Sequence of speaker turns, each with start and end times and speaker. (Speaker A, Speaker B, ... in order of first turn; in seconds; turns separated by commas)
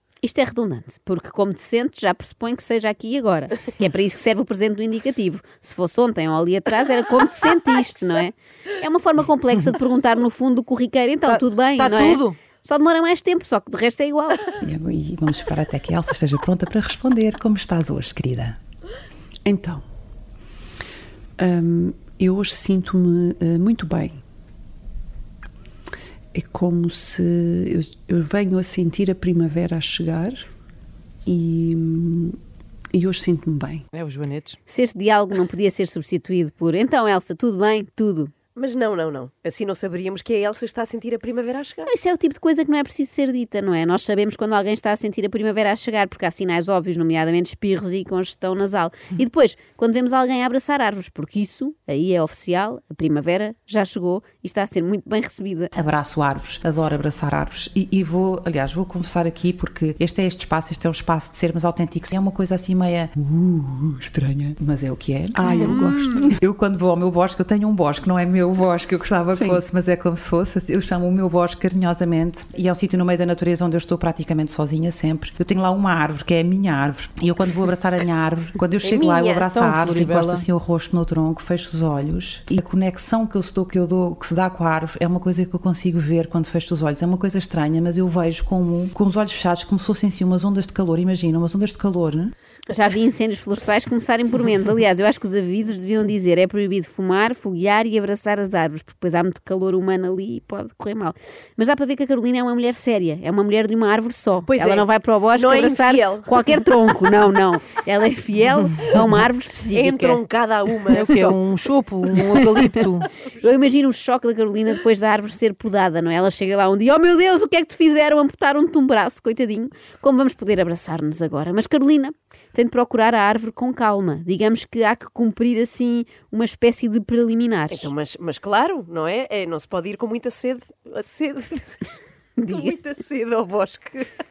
Speaker A: 0.2-14.6, Speaker B: 11.3-12.4, Speaker C: 14.6-18.6, Speaker D: 19.4-19.8, Speaker D: 21.4-24.1, Speaker D: 26.3-30.5, Speaker D: 31.3-32.4, Speaker D: 32.9-33.8, Speaker B: 33.9-34.6, Speaker A: 34.7-38.3, Speaker E: 38.6-41.9, Speaker A: 41.9-55.7, Speaker C: 55.7-92.3, Speaker D: 65.3-66.4, Speaker D: 69.3-69.6, Speaker E: 78.8-79.5, Speaker B: 79.5-80.5, Speaker A: 92.7-110.2, Speaker E: 104.5-106.4, Speaker E: 109.7-111.4, Speaker B: 110.9-113.1, Speaker A: 112.3-127.9, Speaker E: 127.7-131.9, Speaker A: 132.4-132.8, Speaker E: 132.5-134.1